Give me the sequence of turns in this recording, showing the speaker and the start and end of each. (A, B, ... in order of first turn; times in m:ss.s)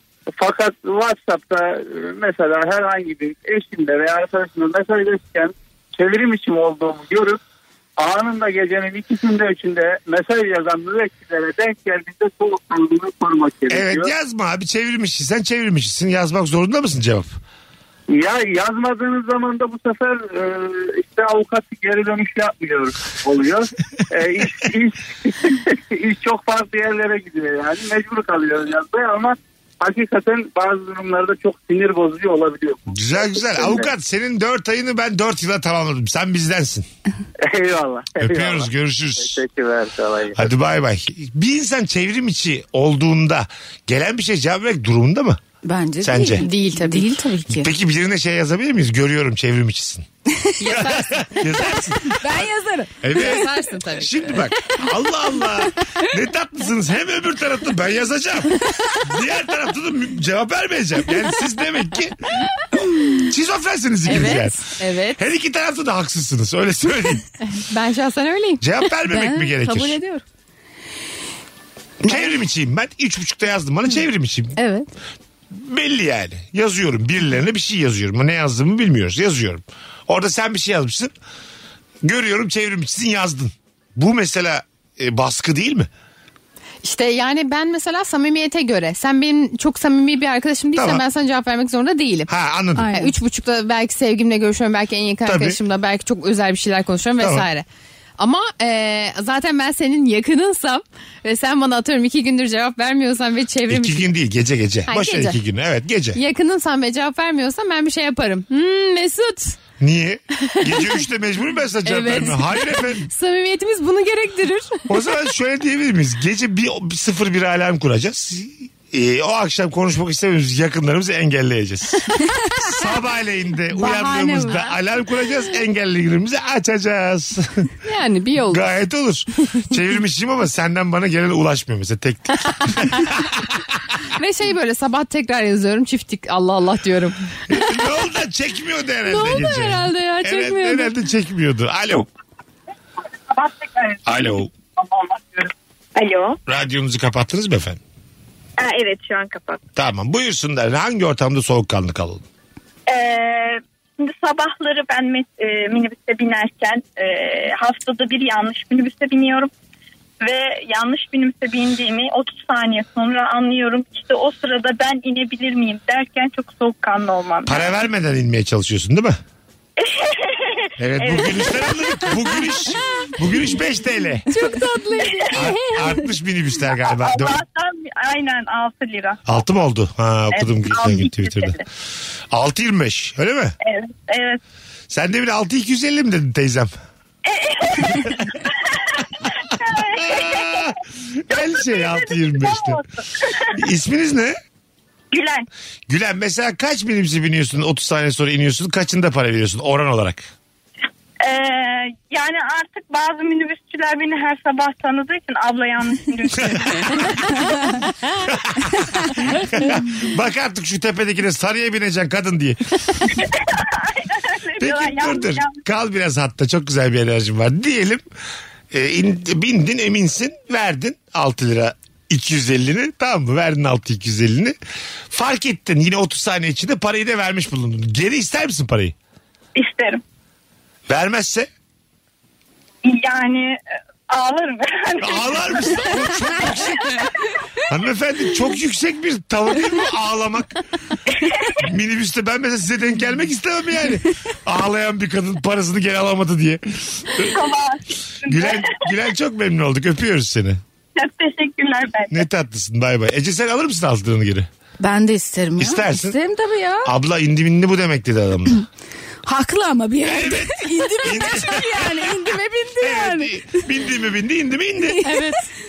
0:00.4-0:07.4 A
0:08.0-0:14.1 A
0:13.7-0:17.4 B
0:18.1-0:33.9 A
0:32.9-0:36.9 B
0:37.4-0:40.4 A
0:38.2-0:39.4 B
0:40.3-0:45.4 B
0:45.6-0:47.7 C
0:46.0-0:46.4 B
0:46.4-0:47.1 D
0:47.5-0:50.0 B
0:50.6-0:51.4 D
0:50.6-0:52.5 B
0:52.0-0:53.4 C
0:53.0-1:02.3 B
0:53.1-0:54.4 D
1:03.1-1:07.2 B
1:04.0-1:05.2 D
1:07.5-1:08.6 D
1:08.6-1:10.0 B
1:09.1-1:10.2 C
1:12.0-1:14.6 B
1:14.6-1:14.9 D
1:15.5-1:21.1 B
1:22.0-1:25.9 B
1:26.8-1:32.3 D
1:30.7-1:31.0 B
1:32.3-1:32.9 B
1:32.8-1:33.1 C
1:32.9-1:37.6 D
1:35.2-1:35.6 B
1:37.2-1:37.5 B
1:38.2-1:44.0 D
1:43.7-1:46.2 B
1:44.9-1:45.4 D
1:46.1-1:49.6 D
1:49.8-1:53.0 B
1:50.6-1:51.0 D
1:51.8-1:54.9 D
1:54.9-2:02.1 B
2:02.2-2:02.7 C
2:02.6-2:07.7 B
2:03.7-2:04.7 C
2:07.8-2:08.6 D
2:08.5-2:13.7 B
2:14.2-2:17.3 D
2:17.5-2:22.1 B
2:19.1-2:20.9 D
2:23.4-2:24.0 E
2:24.0-2:24.5 B
2:25.1-2:25.5 A
2:26.0-2:26.4 E
2:26.5-2:27.8 B
2:28.6-2:29.6 E
2:29.8-2:32.2 B
2:32.9-2:39.5 E
2:40.2-2:47.7 E
2:47.4-2:49.2 B
2:49.8-2:53.1 E
2:50.8-2:54.3 B
2:54.3-2:55.9 D
2:55.3-2:57.4 B
2:56.8-2:59.2 E
2:59.3-3:01.6 B
3:00.3-3:01.6 E
3:02.3-3:03.5 B
3:03.6-3:04.4 E
3:04.9-3:06.7 B
3:07.2-3:10.7 E
3:09.8-3:10.8 B
3:11.3-3:12.8 B
3:11.3-3:13.5 E
3:13.5-3:14.3 B
3:15.1-3:15.5 E
3:15.9-3:20.2 B
3:21.2-3:27.4 E
3:26.4-3:27.1 B
3:28.3-3:32.6 B
3:33.1-3:35.6 E
3:34.6-3:38.0 B
3:38.7-3:44.5 B
3:45.1-3:48.9 B
3:49.6-3:50.0 E
3:50.9-3:51.5 B
3:52.8-3:53.6 E
3:54.1-3:57.1 E
3:55.0-3:56.9 B
3:57.7-4:00.5 B
4:01.2-4:01.6 E
4:01.6-4:07.4 B
4:07.2-4:08.6 E
4:08.2-4:10.6 B
4:11.0-4:12.2 E
4:12.1-4:14.5 B
4:14.8-4:16.9 C
4:15.6-4:16.2 B
4:16.8-4:18.6 B
4:19.2-4:23.6 C
4:20.0-4:25.0 B
4:24.9-4:25.3 C
4:25.0-4:25.4 D